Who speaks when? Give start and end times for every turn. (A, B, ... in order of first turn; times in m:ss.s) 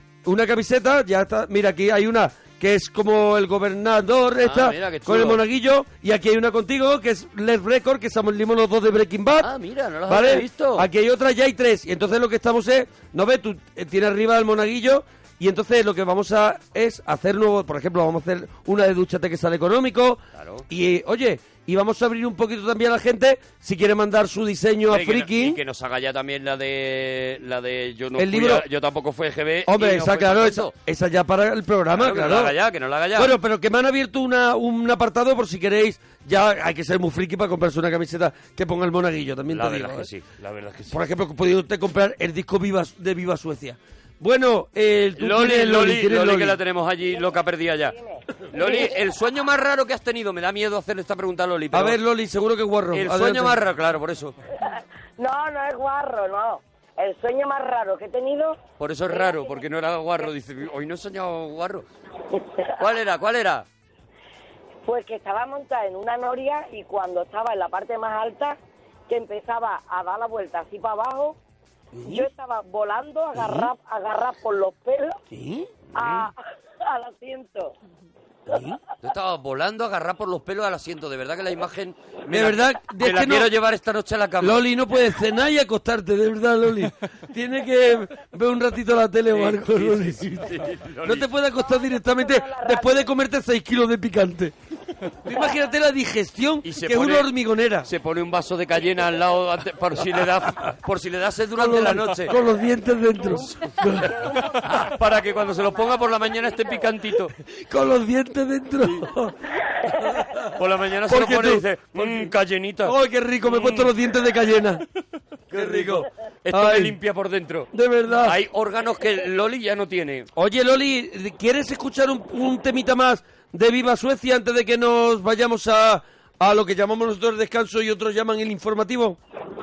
0:00.2-0:09.5 A
0:04.4-0:05.4 B
0:09.4-0:10.8 B
0:10.1-0:25.6 A
0:20.3-0:20.6 B
0:24.9-0:30.7 B
0:28.2-0:28.6 A
0:29.6-0:32.5 A
0:32.0-0:33.3 B
0:33.1-0:40.1 A
0:39.5-0:41.0 B
0:40.9-0:46.6 A
0:45.2-0:48.0 B
0:47.1-0:48.9 C
0:48.5-0:52.0 B
0:51.7-0:53.6 A
0:52.9-0:54.3 B
0:55.2-0:58.6 C
0:58.8-1:01.8 B
0:59.1-0:59.5 C
1:02.8-1:03.6 B
1:04.8-1:08.6 C
1:09.1-1:11.4 C
1:12.0-1:12.3 A
1:12.0-1:15.2 C
1:13.4-1:13.7 A
1:15.3-1:15.7 A
1:16.0-1:16.3 B
1:16.0-1:16.3 C
1:16.8-1:17.7 C
1:18.5-1:18.8 A
1:19.0-1:24.6 B
1:22.3-1:23.5 A
1:24.4-1:34.5 A
1:29.3-1:31.3 B
1:31.6-1:33.1 C
1:35.2-1:37.9 A
1:36.6-1:37.3 B
1:37.8-1:42.4 B
1:41.5-1:44.2 A
1:44.0-1:46.1 C
1:44.6-1:47.3 B
1:47.6-1:49.3 A
1:50.5-1:52.9 B
1:51.1-1:52.3 A
1:52.8-1:54.8 A
1:53.5-1:53.9 B
1:55.5-1:57.0 A
1:55.5-1:57.7 B
1:57.7-1:58.4 A
1:58.2-2:00.3 B
2:00.3-2:09.2 A